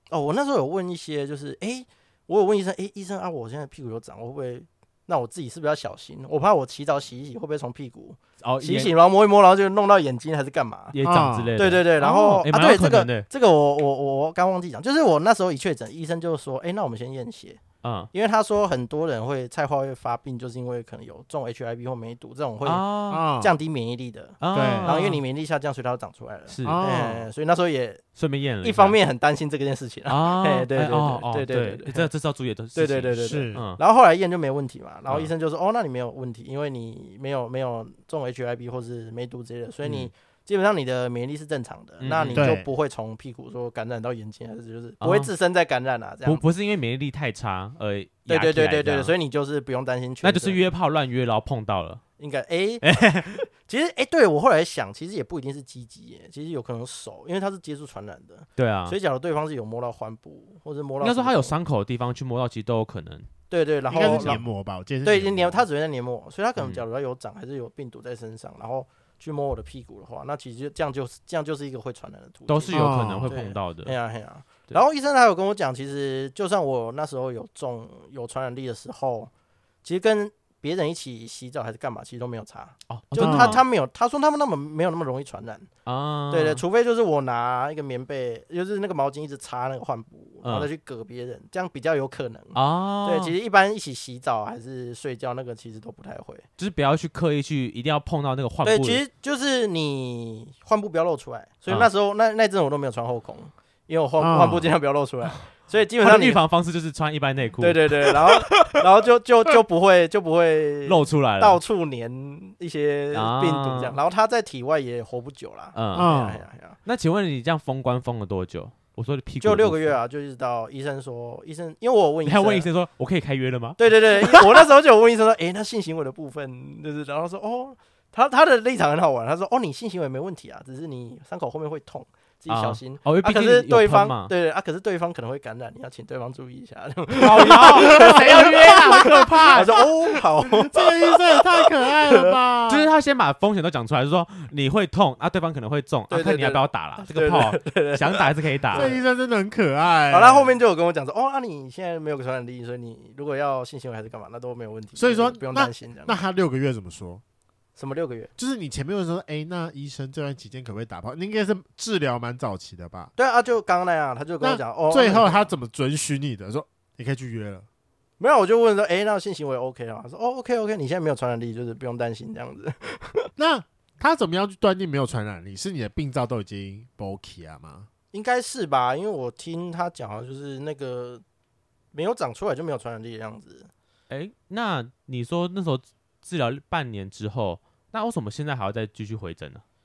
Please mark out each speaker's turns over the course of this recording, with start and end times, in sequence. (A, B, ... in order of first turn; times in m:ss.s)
0:00.1-0:11.0 A
0:08.4-0:08.9 B
0:10.9-0:13.3 B
0:11.0-0:11.6 C
0:11.6-0:17.6 A
0:17.8-0:18.1 B
0:18.1-0:28.0 A
0:22.6-0:23.3 B
0:23.1-0:23.6 C
0:24.4-0:25.2 B
0:24.5-0:25.0 C
0:26.5-0:26.8 B
0:26.6-0:27.2 C
0:28.2-0:29.0 B
0:28.6-0:32.1 A
0:30.1-0:33.8 B
0:32.7-0:46.4 A
0:33.2-0:33.6 C
0:39.8-0:40.1 B
0:42.0-0:42.5 B
0:42.3-0:42.7 C
0:45.0-0:45.3 B
0:46.2-0:49.1 B
0:48.3-0:50.6 A
0:50.2-0:52.0 B
0:52.2-1:01.6 A
0:52.8-0:53.4 B
0:58.6-0:59.0 B
1:01.0-1:03.3 B
1:03.5-1:04.4 A
1:03.9-1:05.6 C
1:04.0-1:04.4 B
1:05.0-1:19.3 A
1:06.6-1:06.8 B
1:12.5-1:13.9 B
1:12.7-1:13.3 C
1:19.8-1:25.7 A
1:22.9-1:23.6 B
1:23.2-1:23.6 C
1:25.8-1:26.6 B
1:26.3-1:36.4 A
1:30.4-1:30.7 B
1:32.5-1:33.3 B
1:36.6-1:39.0 B
1:38.6-1:46.4 A
1:44.2-1:44.7 C
1:46.0-1:48.8 B
1:47.6-1:56.8 A
1:50.8-1:51.6 B
1:53.1-1:54.0 B
1:55.7-1:56.1 B
1:55.9-1:56.4 C
1:56.8-1:59.9 B
1:59.4-2:02.6 A
2:02.2-2:04.6 B
2:03.8-2:22.3 A
2:12.5-2:14.3 B
2:17.2-2:19.8 B
2:17.4-2:19.8 C
2:20.4-2:22.9 C
2:22.7-2:28.9 B
2:26.1-2:29.0 A
2:28.7-2:30.5 C
2:30.1-2:36.2 A
2:35.0-2:37.2 C
2:37.8-2:38.3 A
2:38.4-2:43.1 C
2:43.2-2:45.5 A
2:44.4-2:47.6 C
2:48.2-2:53.3 A
2:53.4-2:57.9 C
2:58.1-3:01.2 A
3:01.9-3:03.7 A
3:04.1-3:09.6 B